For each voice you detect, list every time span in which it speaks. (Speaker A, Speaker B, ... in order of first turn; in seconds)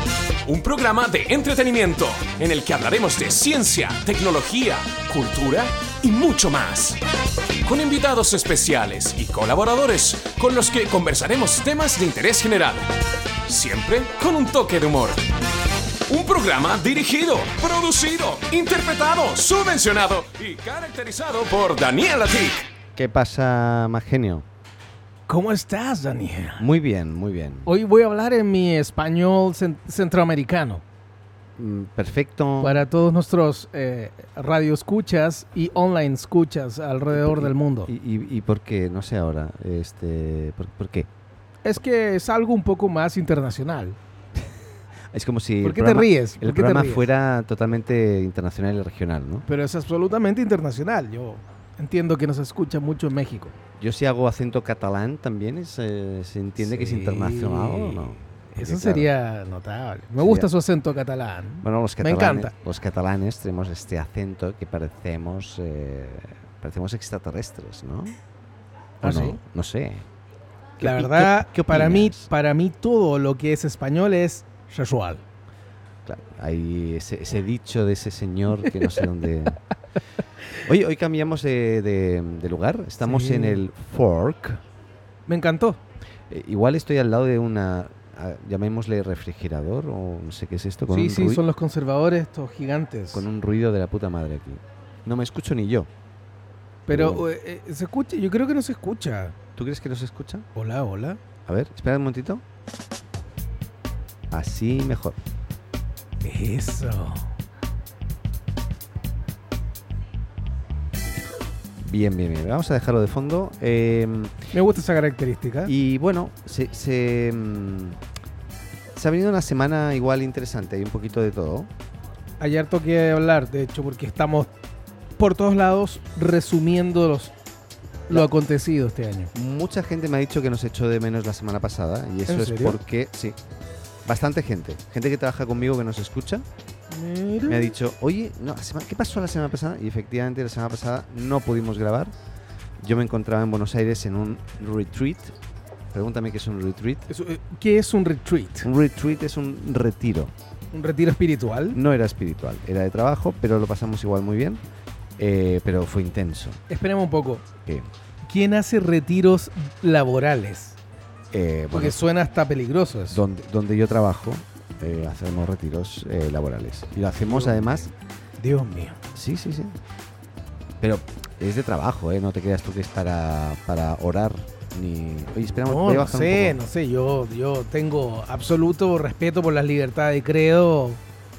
Speaker A: 0.4-7.0, 7.6-12.9, 13.4-15.3, 16.1-22.6
Speaker B: 22.9-24.4, 26.6-27.7, 31.6-32.7, 37.1-41.1, 45.1-49.5, 53.8-59.1, 60.2-60.5, 61.6-68.2, 69.0-70.0, 70.8-72.2, 76.0-79.6, 80.6-84.6, 86.3-91.4, 93.1-95.9, 96.9-97.2, 99.5-100.5, 101.5-102.4, 104.3-105.2, 111.8-114.4, 115.6-118.0, 118.9-121.7, 129.3-133.4, 134.0-136.4, 137.4-142.1, 142.8-145.3, 145.9-147.0, 148.6-150.3, 151.7-154.6, 155.2-156.6, 161.3-162.0, 163.1-167.9, 169.1-169.7, 170.8-176.6
Speaker C: 25.3-26.6, 27.6-30.8, 32.6-37.9, 41.6-44.0, 45.6-47.0, 49.5-53.5, 56.6-62.5, 69.0-69.4, 70.8-75.2, 78.8-79.5, 83.0-83.6, 85.3-85.8, 90.9-93.2, 96.9-99.3, 100.5-101.2, 106.2-107.3, 114.5-115.7, 122.4-124.5, 125.2-127.3, 128.1-129.3, 132.2-132.8, 136.9-137.7, 147.1-148.7, 150.7-151.8, 156.7-157.4, 158.2-160.8, 161.7-163.2, 167.2-169.0, 175.7-181.0